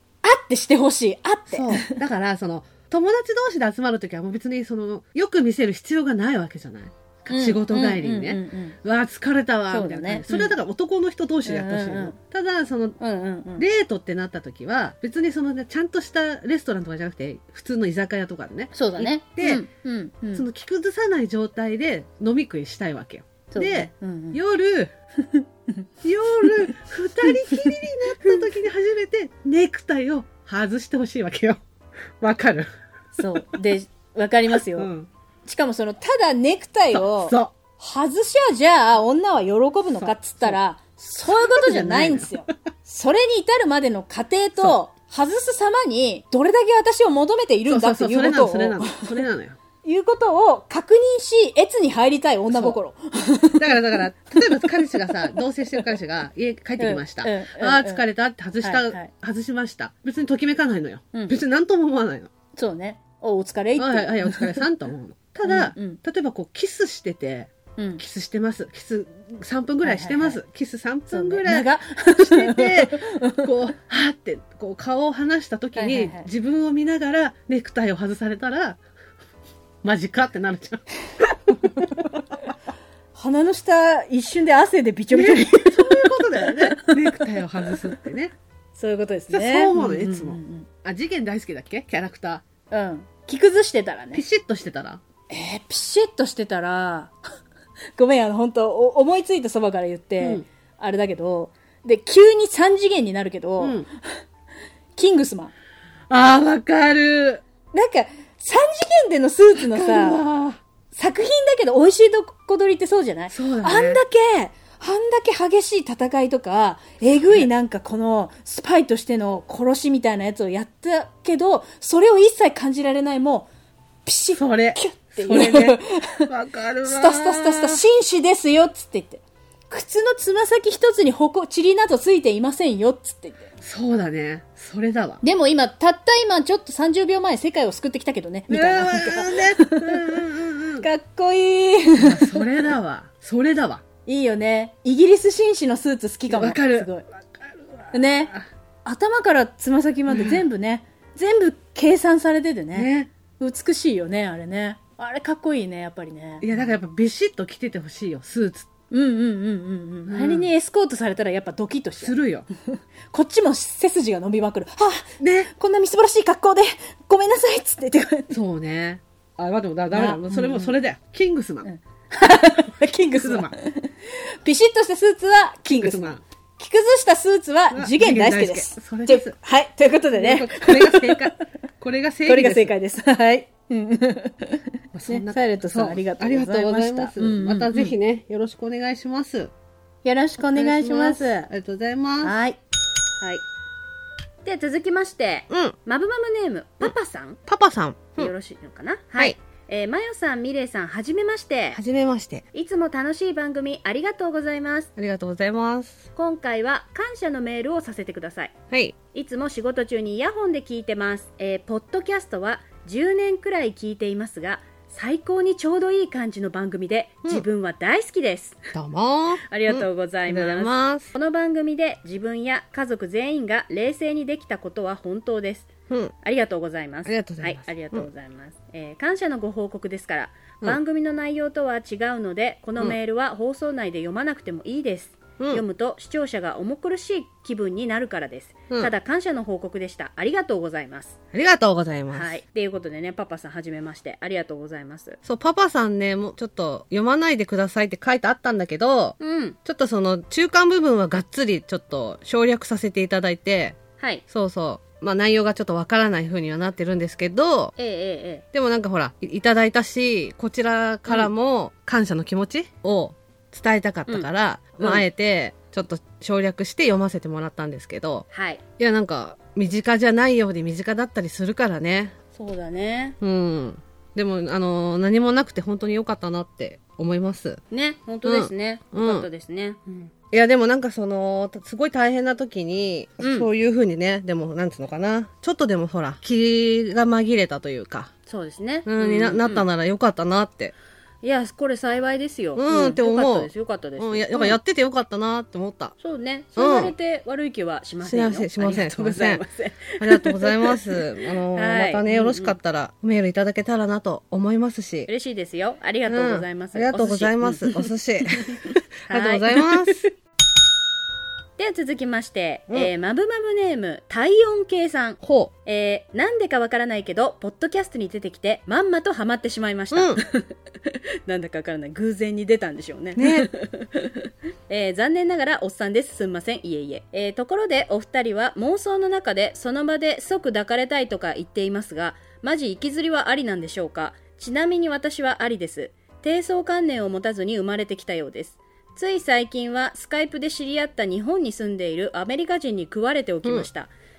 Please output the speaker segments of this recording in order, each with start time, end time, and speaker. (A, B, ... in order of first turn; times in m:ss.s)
0:00.2-0:02.0 A
0:01.5-0:13.0 B
0:07.3-0:08.8 A
0:09.7-0:10.5 A
0:11.4-0:12.2 A
0:13.0-0:13.7 A
0:13.6-0:19.6 B
0:18.7-0:20.4 A
0:20.3-0:24.9 B
0:23.5-0:24.4 A
0:26.0-0:31.6 B
0:27.2-0:27.8 A
0:32.2-0:32.7 B
0:33.2-0:34.9 A
0:34.5-0:35.1 B
0:35.4-0:49.2 A
0:36.9-0:37.5 B
0:40.0-0:40.6 B
0:41.2-0:42.4 B
0:47.7-0:49.6 B
0:49.8-0:55.3 A
0:52.5-0:52.8 B
0:53.6-1:02.3 B
0:56.8-0:58.0 A
0:58.6-0:59.1 A
1:01.1-1:01.4 A
1:02.6-1:04.6 A
1:03.8-1:18.8 B
1:05.4-1:06.0 A
1:07.8-1:08.0 A
1:09.8-1:10.4 A
1:11.1-1:13.5 A
1:15.8-1:16.3 A
1:19.8-1:20.8 B
1:21.7-1:22.1 A
1:23.2-1:27.3 A
1:25.1-1:28.3 B
1:28.8-1:30.7 A
1:29.3-1:32.4 B
1:32.7-1:34.2 A
1:34.1-1:35.0 B
1:35.3-1:37.2 A
1:38.0-1:44.2 A
1:40.2-1:40.4 B
1:43.6-1:43.9 B
1:45.0-1:45.5 A
1:46.1-1:47.4 B
1:47.7-1:50.2 A
1:49.6-1:50.6 B
1:50.9-2:03.5 A
1:53.3-1:54.0 B
2:04.1-2:06.3 A
2:04.4-2:07.8 B
2:06.8-2:13.5 A
2:13.6-2:15.2 B
2:15.2-2:20.1 A
2:18.5-2:20.9 B
2:20.8-2:22.5 A
2:22.0-2:23.8 B
2:24.1-2:27.1 A
2:26.3-2:28.4 B
2:27.9-2:28.3 A
2:28.8-2:36.5 A
2:30.1-2:30.4 B
2:32.7-2:33.1 B
2:36.4-2:38.7 B
2:38.9-2:42.2 A
2:40.1-2:40.5 B
2:42.0-2:42.5 B
2:42.7-2:48.4 A
2:45.2-2:45.5 B
2:48.3-2:51.7 B
2:49.9-2:50.7 A
2:51.6-3:01.3 A
2:53.2-2:53.5 B
2:55.8-2:56.2 B
2:57.7-2:59.4 B
3:00.1-3:02.7 B
3:02.3-3:07.9 A
3:04.9-3:09.5 B
3:10.0-3:11.5 A
3:10.4-3:12.3 B
3:12.2-3:12.6 A
3:14.4-3:17.4 C
3:15.5-3:15.8 B
3:17.5-3:18.3 B
3:18.1-3:21.8 C
3:21.7-3:22.4 B
3:22.5-3:24.9 C
3:25.0-3:26.1 B
3:26.2-3:28.5 C
3:28.7-3:29.0 B
3:29.1-3:38.6 C
3:38.7-3:41.1 B
3:39.5-3:45.7 C
3:46.2-4:01.2 C
3:47.1-3:48.1 B
3:55.4-3:55.6 B
4:01.3-4:02.4 B
4:02.1-4:05.2 C
4:05.2-4:13.8 B
4:09.2-4:09.6 C
4:14.3-4:17.7 B
4:17.8-4:18.4 C
4:18.5-4:28.3 B
4:28.3-4:28.6 C
4:28.8-4:32.2 B
4:32.4-4:33.2 C
4:33.2-4:37.6 B
4:37.7-4:40.1 C
4:38.2-4:39.3 B
4:40.3-4:48.1 B
4:43.2-4:43.5 C
4:48.3-4:49.7 C
4:48.9-4:50.7 B
4:51.2-4:54.6 C
4:52.6-4:56.0 B
4:56.0-5:02.6 C
4:56.6-4:56.9 B
4:58.0-4:59.4 B
5:00.0-5:05.1 B
5:05.1-5:10.0 C
5:06.1-5:10.0 B
5:11.6-5:43.9 C
5:15.2-5:15.5 B
5:19.9-5:20.2 B
5:23.2-5:23.5 B